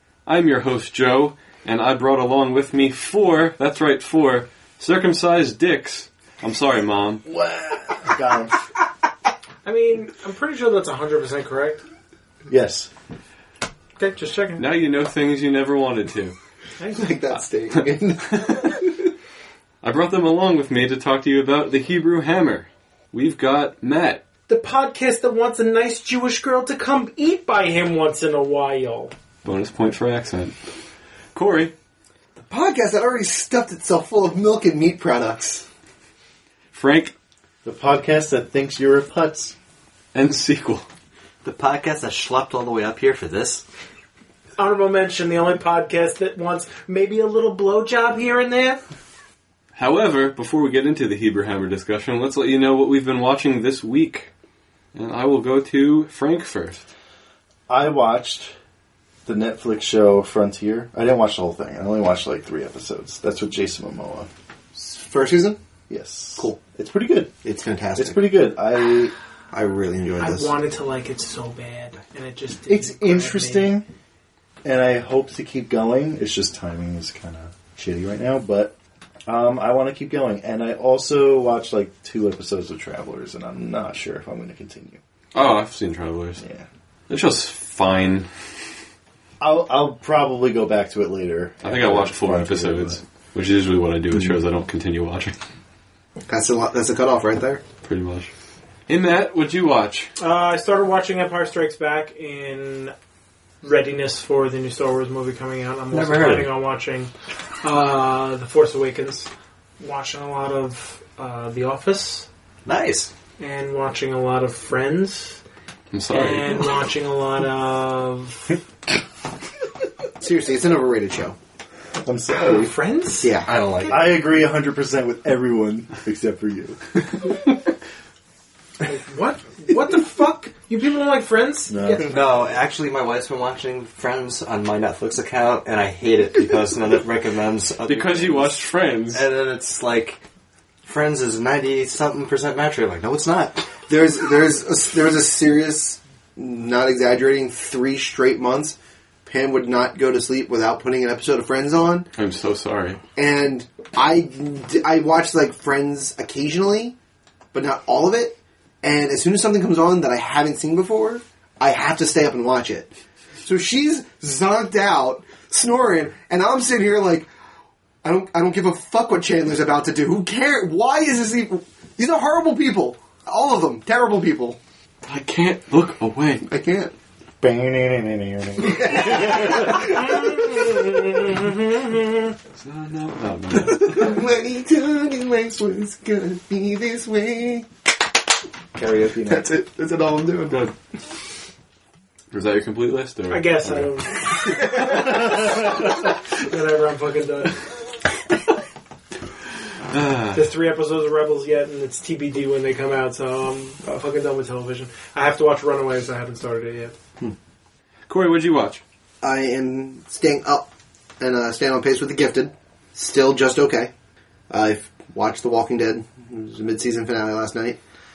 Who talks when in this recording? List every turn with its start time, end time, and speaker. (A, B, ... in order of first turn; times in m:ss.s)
0:00.2-0:07.2 A
0:07.2-0:08.5 B
0:09.6-0:11.8 C
0:12.5-0:12.9 B
0:14.0-0:14.6 C
0:14.6-0:16.3 A
0:16.8-0:17.2 C
0:16.9-0:18.9 D
0:19.8-0:24.2 A
0:24.5-0:29.1 C
0:29.4-0:30.5 A
0:31.3-0:31.7 A
0:32.4-0:35.6 D
0:36.7-0:37.1 A
0:37.6-0:39.5 B
0:40.1-0:40.8 A
0:41.4-0:43.6 E
0:44.6-0:48.8 C
0:49.7-0:54.3 A
0:54.9-0:56.8 A
0:57.7-0:58.5 B
0:59.2-1:04.3 B
1:04.7-1:05.6 D
1:05.9-1:07.3 B
1:07.4-1:08.3 D
1:07.9-1:09.1 B
1:09.5-1:10.6 D
1:10.2-1:13.8 C
1:12.7-1:13.8 B
1:14.6-1:18.7 B
1:19.3-1:25.0 B
1:25.3-1:26.4 A
1:26.4-1:26.6 B
1:27.1-1:28.3 A
1:29.4-1:33.0 B
1:31.6-1:35.4 A
1:36.3-1:37.6 D
1:37.8-1:38.3 A
1:38.9-1:40.1 A
1:40.2-1:42.9 C
1:43.6-1:47.1 C
1:45.9-1:46.5 E
1:47.6-1:52.3 C
1:52.6-1:53.1 E
1:53.4-1:55.4 C
1:55.9-1:56.6 A
1:56.1-1:58.5 C
2:00.2-2:01.4 D
2:02.0-2:02.7 B
2:02.3-2:04.2 C
2:03.2-2:03.5 D
2:03.4-2:04.0 E
2:03.9-2:07.4 B
2:08.8-2:12.1 C
2:11.7-2:12.1 B
2:12.0-2:18.6 E
2:17.8-2:19.2 A
2:19.1-2:20.2 E
2:20.8-2:23.7 E
2:23.9-2:32.1 D
2:32.2-2:33.0 A
2:33.2-2:37.0 D
2:37.5-2:42.9 D
2:43.4-2:47.3 D
2:48.0-2:54.6 D
2:55.0-2:56.4 A
2:56.4-2:56.9 D
2:57.4-2:59.9 B
2:58.6-3:01.4 D
2:59.8-3:01.7 C
3:02.5-3:04.2 A
3:03.5-3:07.7 D
3:08.7-3:09.5 B
3:09.3-3:10.7 D
3:12.3-3:13.9 A
3:13.3-3:17.6 C
3:14.4-3:15.0 D
3:19.9-3:20.4 A
3:20.3-3:27.0 C
3:28.1-3:28.8 A
3:29.2-3:30.7 D
3:31.2-3:33.9 D
3:34.5-3:37.8 D